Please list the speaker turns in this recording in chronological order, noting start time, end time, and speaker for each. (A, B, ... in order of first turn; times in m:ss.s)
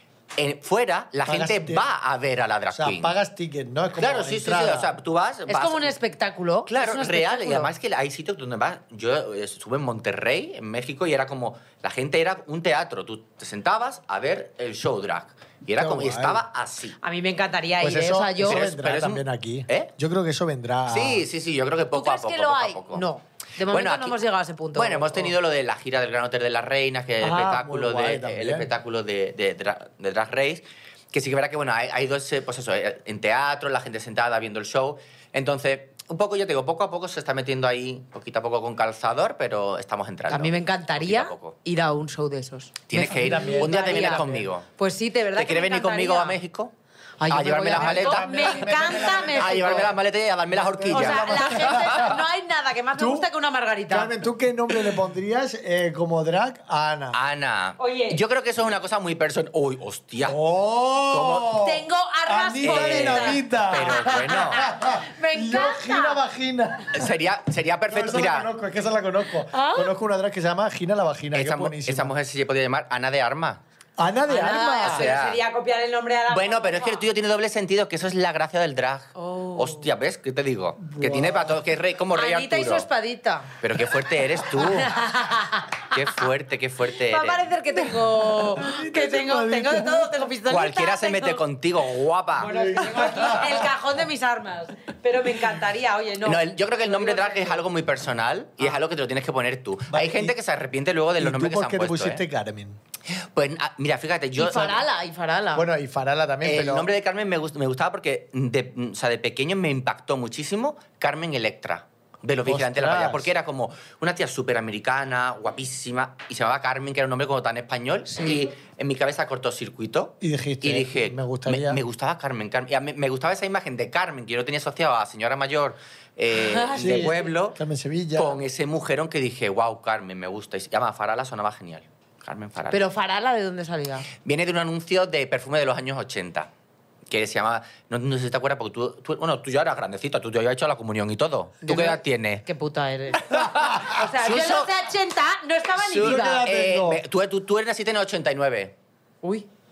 0:00.4-0:03.1 A
0:01.2-0:01.8 B
0:02.7-0:04.9 B
0:04.0-0:05.9 A
0:05.5-0:07.7 C
0:06.7-0:17.0 A
0:15.8-0:16.4 B
0:17.0-0:18.6 C
0:17.8-0:21.2 B
0:18.4-0:19.9 A
0:20.9-0:23.0 A
0:21.9-0:25.3 C
0:23.7-0:24.2 A
0:24.7-0:41.6 A
0:27.2-0:28.7 B
0:40.3-0:46.4 C
0:42.9-0:44.7 A
0:43.1-0:44.4 B
0:45.3-0:46.7 A
0:47.2-0:49.9 C
0:47.3-0:52.2 A
0:47.7-0:49.9 B
0:50.5-0:52.2 B
0:50.9-0:54.1 C
0:53.0-0:53.3 B
0:53.9-0:57.2 B
0:57.1-1:00.4 A
0:57.8-0:58.2 C
1:00.2-1:07.1 B
1:01.1-1:01.6 A
1:01.6-1:06.2 C
1:02.6-1:04.7 A
1:06.9-1:08.5 A
1:07.9-1:12.1 B
1:09.5-1:09.9 C
1:11.3-1:13.6 A
1:14.0-1:15.1 B
1:14.3-1:17.0 C
1:14.8-1:15.4 A
1:16.3-1:22.9 A
1:19.1-1:19.9 C
1:20.8-1:21.6 B
1:22.1-1:23.5 C
1:23.6-1:25.0 A
1:24.5-1:26.2 C
1:25.9-1:27.5 A
1:27.0-1:31.4 C
1:28.2-1:30.2 B
1:30.5-1:33.3 A
1:32.4-1:37.6 C
1:32.4-1:33.6 B
1:36.2-1:42.2 A
1:39.9-1:40.3 B
1:41.2-1:42.8 B
1:43.1-1:44.8 A
1:44.4-1:45.6 C
1:45.5-1:46.9 B
1:46.4-2:07.6 A
1:52.4-1:53.3 B
1:58.1-1:58.5 C
2:00.2-2:01.8 B
2:06.3-2:07.3 C
2:06.8-2:08.4 B
2:08.1-2:12.8 A
2:12.7-2:14.1 C
2:14.2-2:16.5 A
2:17.1-2:22.4 A
2:21.6-2:26.4 C
2:23.2-2:24.7 A
2:25.8-2:28.7 A
2:25.9-2:27.0 B